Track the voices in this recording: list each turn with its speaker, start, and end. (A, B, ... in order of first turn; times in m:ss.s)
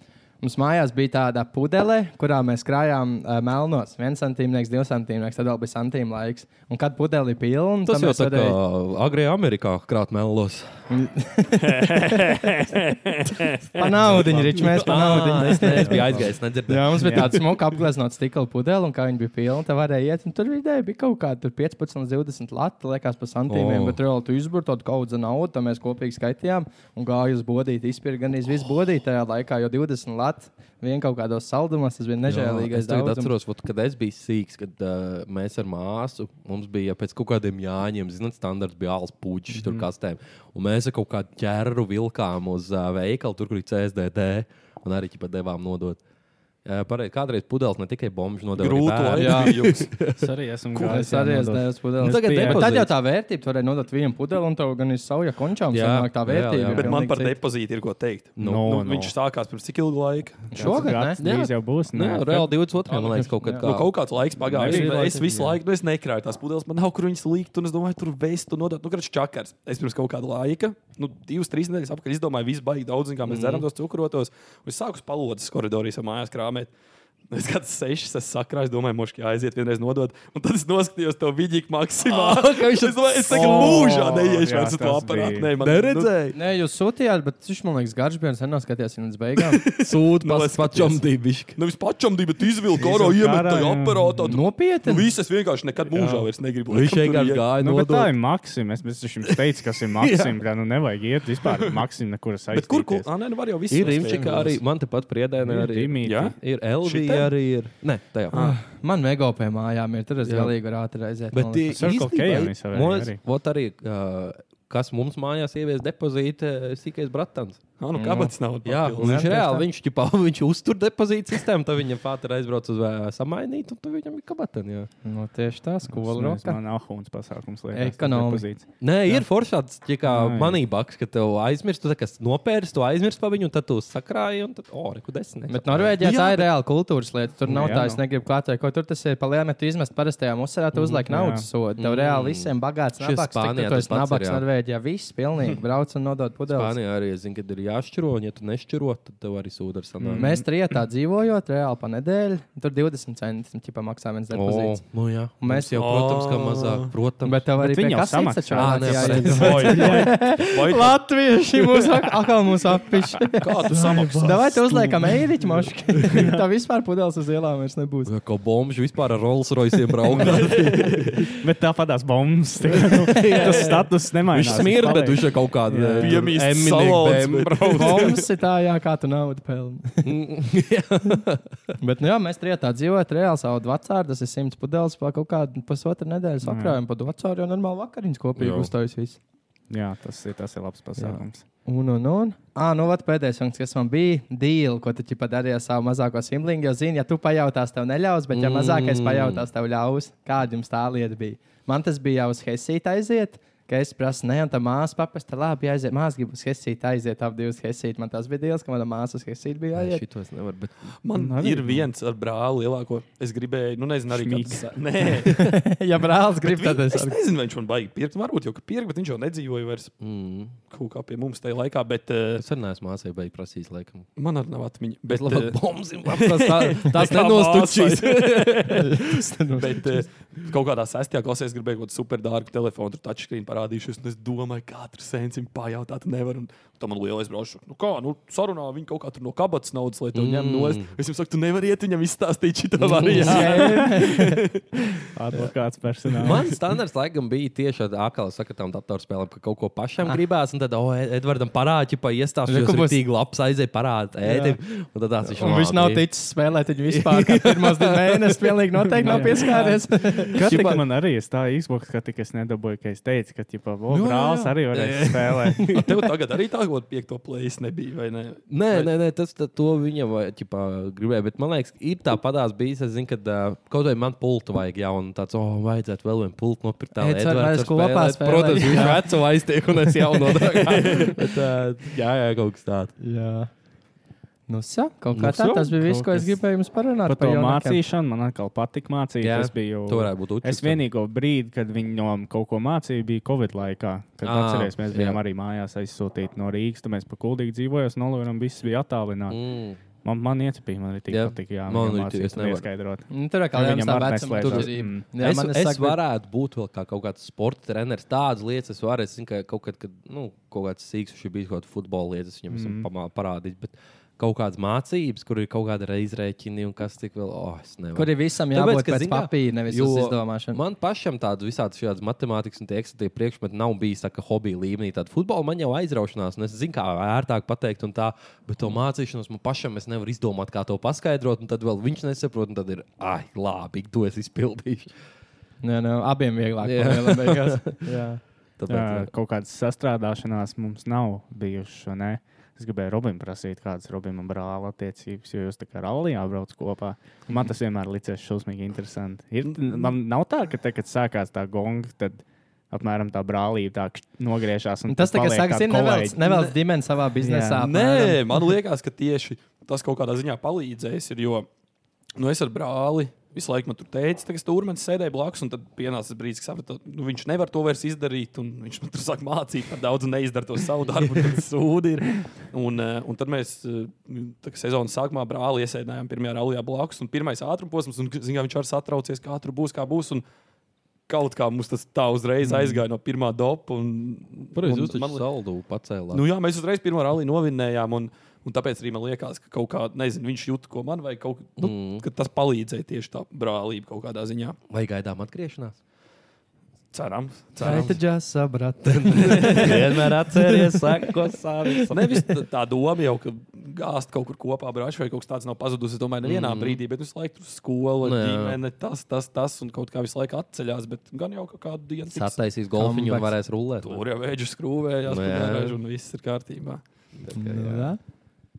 0:00.4-0:08.6 A
0:07.9-0:10.7 B
0:10.9-0:12.2 A
0:11.7-0:13.6 C
0:13.8-0:16.0 A
0:14.1-0:17.4 B
0:14.1-0:14.6 D
0:16.7-0:33.3 A
0:17.0-0:17.3 D
0:23.5-0:24.0 B
0:32.2-0:46.0 B
0:39.6-0:39.8 D
0:46.6-0:50.3 B
0:48.6-0:49.9 C
0:49.2-0:49.5 A
0:50.2-0:52.8 D
0:50.8-0:57.4 A
0:52.0-0:52.9 B
0:55.7-0:57.0 B
0:56.7-1:00.6 C
0:58.4-0:58.7 B
0:58.4-0:59.1 D
1:00.5-1:02.5 D
1:00.5-1:01.2 A
1:01.2-1:03.9 B
1:02.9-1:03.7 A
1:03.6-1:16.7 C
1:04.4-1:05.6 D
1:04.6-1:05.0 B
1:13.2-1:13.7 B
1:17.3-1:26.1 C
1:22.0-1:24.1 B
1:23.3-1:25.5 D
1:25.6-1:26.4 B
1:26.3-1:29.6 A
1:29.6-1:31.0 C
1:29.8-1:31.6 B
1:31.6-1:37.4 C
1:32.8-1:34.4 D
1:34.3-1:35.1 A
1:36.7-1:38.1 B
1:37.6-1:43.1 D
1:40.0-1:40.4 B
1:41.5-1:41.7 C
1:42.5-1:44.6 C
1:43.7-1:48.4 B
1:45.4-1:46.3 D
1:46.0-1:47.3 C
1:48.3-1:48.6 C
1:48.3-1:51.8 A
1:50.2-1:50.6 B
1:51.3-2:04.9 B
1:51.7-1:53.2 D
1:57.8-1:59.2 C
1:58.0-1:58.3 A
1:59.0-1:59.6 A
2:05.0-2:06.6 A
2:05.9-2:09.2 D
2:07.7-2:08.4 A
2:08.8-2:16.1 B
2:10.1-2:10.6 D
2:15.5-2:26.8 A
2:16.0-2:16.5 C
2:17.5-2:18.0 D
2:21.1-2:21.5 D
2:21.8-2:24.4 B
2:26.5-2:30.4 B
2:30.0-2:30.4 D
2:30.2-2:34.8 A
2:34.3-2:37.4 B
2:35.4-2:35.8 A
2:35.8-2:36.9 C
2:37.2-2:48.1 A
2:37.6-2:40.2 D
2:38.6-2:40.0 B
2:39.2-2:41.0 C
2:43.4-2:44.7 C
2:43.7-2:44.4 D
2:46.1-2:46.4 D
2:48.0-2:51.3 B
2:50.1-2:50.6 D
2:50.1-2:51.2 C
2:51.4-2:56.2 D
2:52.7-2:58.2 B
2:56.0-2:58.2 C
2:57.7-3:00.1 A
3:00.0-3:01.6 B
3:01.8-3:09.2 A
3:06.4-3:06.8 D
3:08.4-3:08.7 B
3:09.7-3:11.4 D
3:11.0-3:30.0 A
3:18.3-3:19.5 B
3:29.8-3:30.7 B
3:31.0-3:35.4 C
3:31.1-3:31.9 D
3:34.1-3:34.7 D
3:35.3-3:37.2 A
3:36.4-3:39.9 C
3:40.0-3:40.6 B
3:40.7-3:42.4 C
3:42.4-3:44.1 B
3:44.2-3:48.8 C
3:45.1-3:49.0 B
3:48.8-3:50.0 A
3:49.5-4:05.5 C
4:00.1-4:00.9 B
4:02.8-4:03.7 B
4:03.2-4:04.4 A
4:05.1-4:06.4 D
4:06.2-4:16.1 B
4:12.5-4:13.0 A
4:14.2-4:14.6 A
4:15.2-4:20.7 A
4:16.9-4:18.4 B
4:19.0-4:20.8 B
4:19.0-4:19.6 D
4:20.3-4:25.7 D
4:23.9-4:26.1 B
4:25.7-4:28.9 C
4:28.5-4:42.9 B
4:37.0-4:39.1 A
4:43.0-4:43.5 A
4:44.5-4:47.8 A
4:45.1-4:45.7 B
4:45.3-4:46.4 D
4:47.1-4:59.4 D
4:49.2-4:50.8 B
4:54.2-4:55.2 B
4:59.3-4:59.8 B
5:00.0-5:05.0 D
5:01.1-5:02.7 B
5:03.1-5:06.0 A
5:04.4-5:34.9 B
5:12.5-5:12.9 D
5:18.0-5:20.6 A
5:35.6-5:38.2 A
5:36.6-5:37.9 B
5:38.6-5:39.1 B
5:38.7-5:56.2 D
5:49.4-5:49.9 C
5:54.9-5:58.2 A
5:56.2-5:56.6 C
5:57.2-5:57.7 D
5:57.6-6:01.5 C
6:02.2-6:20.2 C
6:21.1-6:25.2 C
6:24.6-6:26.2 B
6:26.1-6:34.6 C
6:31.6-6:32.0 B
6:34.7-6:35.8 B
6:36.9-6:38.0 C
6:37.6-6:41.0 A
6:37.6-6:38.0 B
6:38.8-6:42.3 B
6:39.3-6:39.8 C
6:41.9-6:52.4 C
6:46.2-6:46.8 B
6:48.0-6:48.6 B
6:52.1-6:54.0 B
6:52.8-6:53.3 A
6:53.8-6:56.8 C
6:55.1-6:55.8 B
6:57.2-6:58.0 B
6:57.3-6:58.0 A